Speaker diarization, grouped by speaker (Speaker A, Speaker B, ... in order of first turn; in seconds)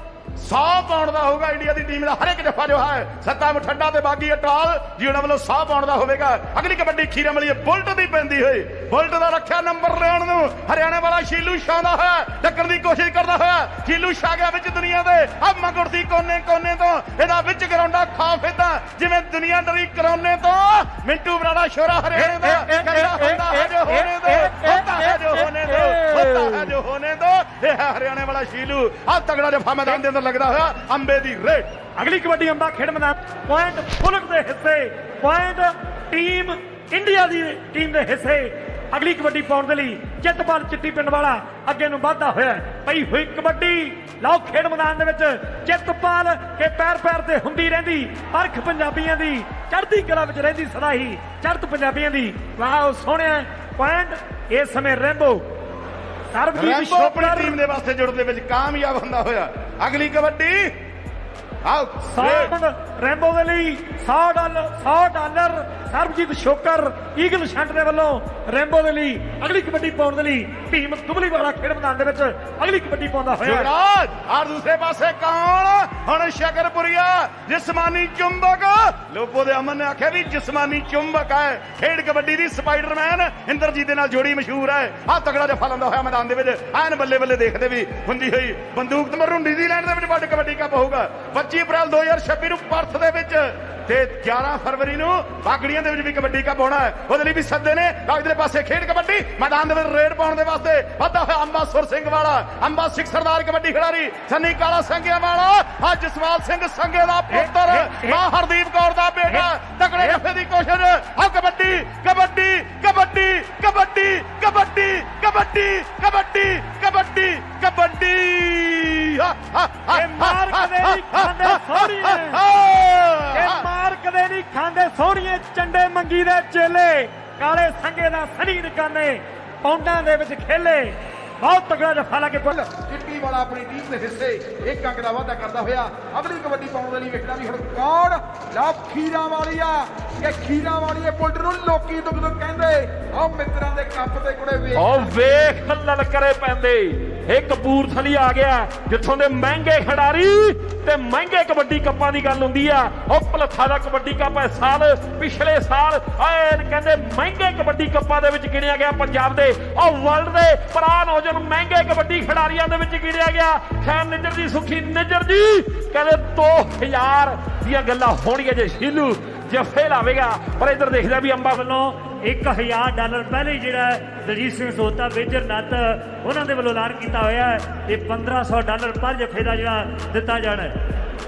Speaker A: 0.4-31.7, 56.5-60.7, 61.6-62.5, 73.4-123.7
Speaker B: 32.0-55.4, 56.3-57.5, 62.1-73.7, 107.4-108.2, 119.9-122.4, 123.3-132.7, 171.6-180.8
Speaker C: 132.7-145.1
Speaker D: 144.7-171.8